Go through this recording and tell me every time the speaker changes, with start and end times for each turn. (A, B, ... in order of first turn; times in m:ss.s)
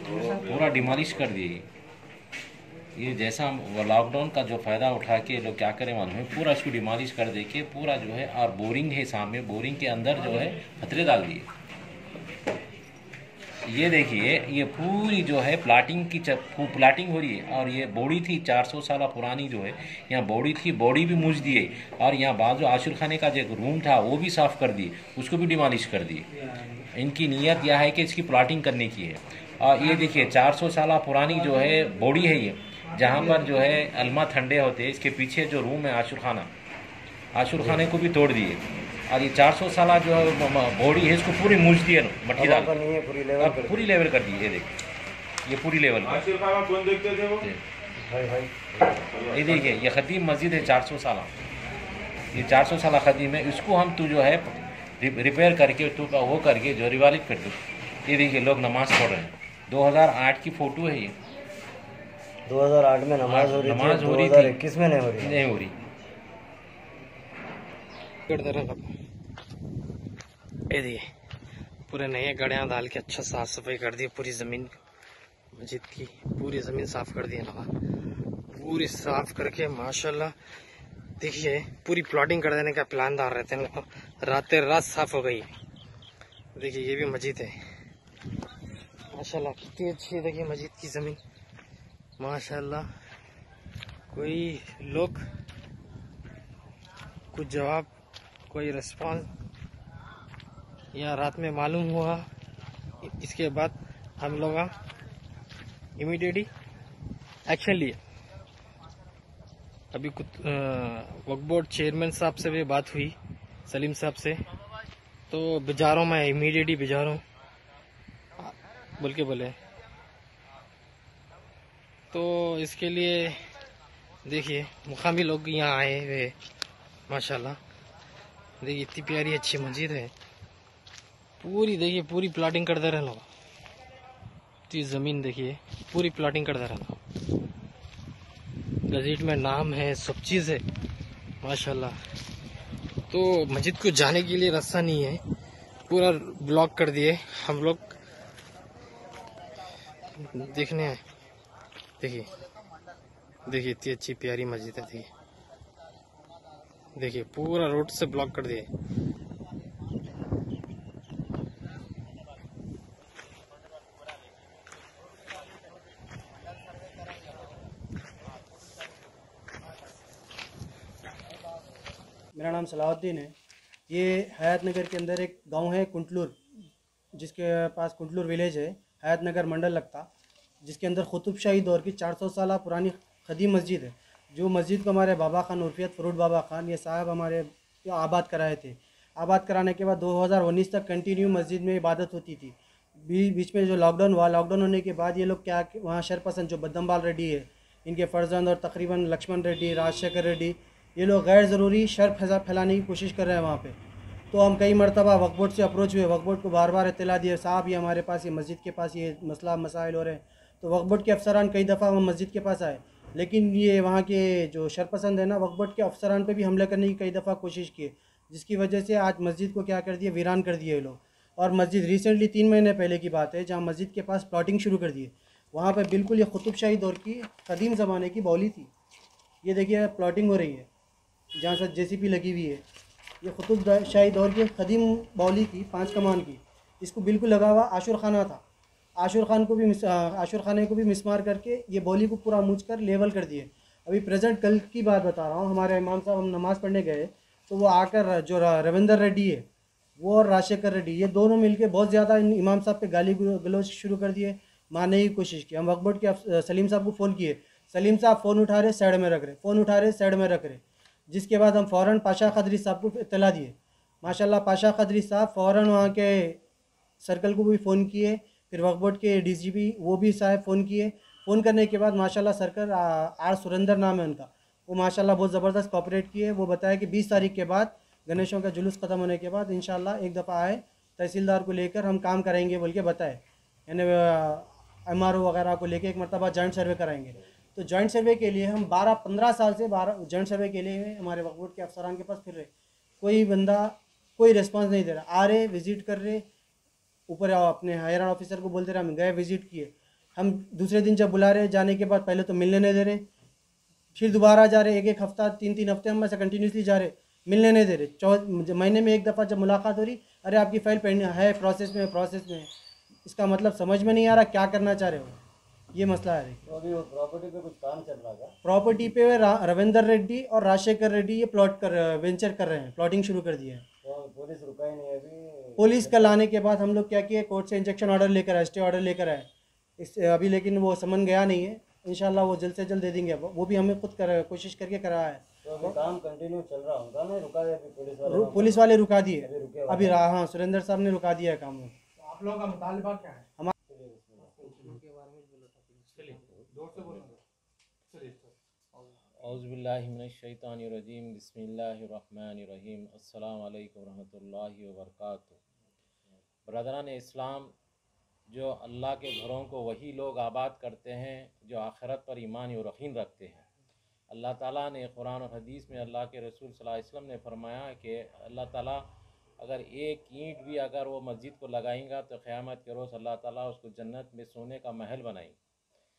0:00.3-0:01.7 A
0:03.0-0:11.5 A
0:13.6-0:26.2 A
0:26.9-0:36.5 A
0:37.3-0:42.7 A
0:42.4-0:43.9 B
0:43.4-0:44.8 A
0:45.4-0:46.4 A
0:48.0-0:49.2 B
0:49.3-0:51.3 A
0:52.3-1:01.2 A
1:02.4-1:05.4 B
1:03.2-1:04.6 A
1:05.2-1:05.8 A
1:08.3-1:08.9 C
1:10.7-1:11.1 C
1:11.9-1:14.8 C
1:15.6-1:17.7 C
1:18.5-1:20.3 C
1:21.2-1:25.5 C
1:26.6-1:27.6 C
1:29.1-1:31.2 C
1:32.2-1:32.9 C
1:34.1-1:35.3 C
1:37.3-1:37.9 C
1:38.5-1:39.3 C
1:40.9-1:42.2 C
1:43.0-1:44.7 C
1:46.0-1:46.5 C
1:47.5-1:48.0 C
1:49.9-1:53.2 C
1:53.7-1:54.4 C
1:55.3-1:57.2 C
1:58.4-1:59.6 C
2:02.1-2:03.4 C
2:04.2-2:06.4 C
2:07.1-2:07.6 C
2:08.6-2:10.1 C
2:11.4-2:13.3 C
2:14.7-2:17.0 C
2:18.9-2:20.6 C
2:21.4-2:22.0 C
2:23.1-2:25.2 C
2:25.9-2:28.0 C
2:30.2-2:31.0 C
2:32.0-2:32.4 C
2:33.4-2:35.1 C
2:36.9-2:38.7 C
2:52.3-2:53.3 D
2:53.9-2:56.4 D
2:57.1-3:00.1 D
3:00.6-3:23.8 D
3:24.3-3:48.7 D
3:49.4-3:50.7 D
3:51.4-3:52.6 D
3:53.2-3:58.4 D
3:59.0-4:09.4 D
4:10.0-4:26.4 D
4:27.0-4:52.5 D
4:53.0-4:56.2 D
4:57.1-5:03.0 D
5:04.0-5:12.5 D
5:13.0-5:15.2 D
5:15.7-5:16.4 D
5:16.4-5:18.4 B
5:18.4-5:23.6 D
5:23.8-5:26.2 B
5:25.6-5:29.3 D
5:29.8-5:35.8 D
5:35.4-5:38.7 B
5:38.0-5:41.8 D
5:39.2-5:40.0 B
5:42.0-5:43.2 E
5:43.7-5:44.7 B
5:44.4-5:44.8 E
5:46.5-5:47.2 E
5:46.8-5:47.0 A
5:47.9-5:48.3 E
5:49.2-5:55.4 A
5:56.5-5:57.5 A
5:58.3-6:03.5 A
6:04.1-6:08.8 A
6:09.4-6:15.4 A